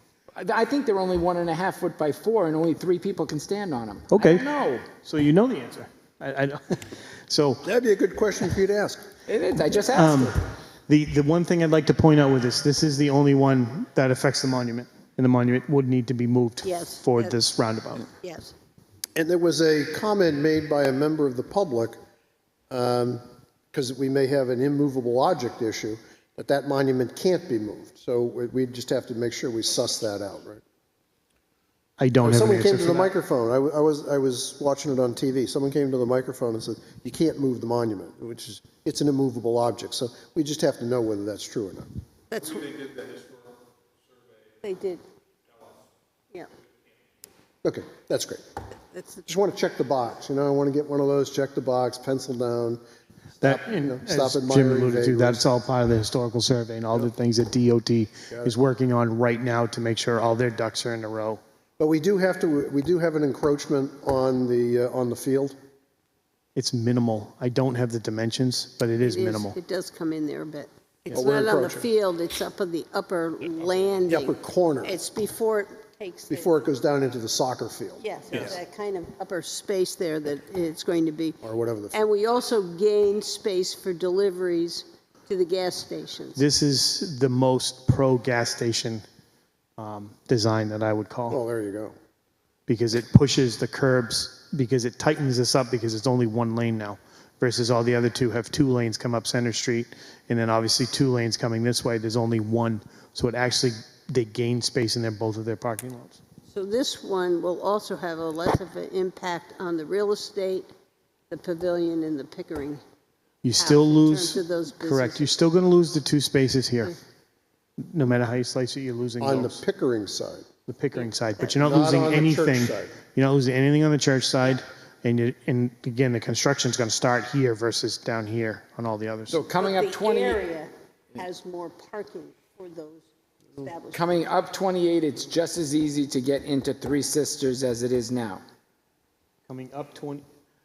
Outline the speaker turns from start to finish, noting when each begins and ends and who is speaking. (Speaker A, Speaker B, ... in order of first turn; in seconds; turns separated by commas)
Speaker A: 0.3-4.9, Speaker B: 4.1-7.6, Speaker C: 7.6-9.1, Speaker A: 9.3-10.3, Speaker B: 9.9-18.1, Speaker D: 16.6-17.4, Speaker D: 18.2-18.5, Speaker C: 19.2-22.0, Speaker C: 22.7-30.6, Speaker B: 32.0-33.1, Speaker C: 32.2-41.9, Speaker D: 42.3-43.2, Speaker D: 44.6-45.0, Speaker C: 47.6-48.6, Speaker D: 48.9-49.2, Speaker C: 49.2-52.8, Speaker C: 53.4-55.4, Speaker B: 53.4-61.4, Speaker C: 61.8-65.6, Speaker B: 66.6-69.6, Speaker D: 69.0-76.6, Speaker C: 71.1-71.9, Speaker C: 74.1-75.0, Speaker C: 76.3-78.6, Speaker D: 78.0-81.4, Speaker C: 81.4-82.0, Speaker D: 81.9-86.4, Speaker B: 86.4-89.0, Speaker B: 89.8-91.4, Speaker C: 91.3-92.0, Speaker B: 92.7-106.2, Speaker D: 106.5-110.7, Speaker D: 111.3-112.8, Speaker B: 113.4-117.0, Speaker D: 113.6-115.3, Speaker B: 117.8-119.6, Speaker C: 119.2-120.5, Speaker B: 120.7-129.4, Speaker C: 121.6-122.9, Speaker A: 129.3-130.4, Speaker D: 129.6-134.3, Speaker A: 133.9-138.4, Speaker B: 139.5-140.2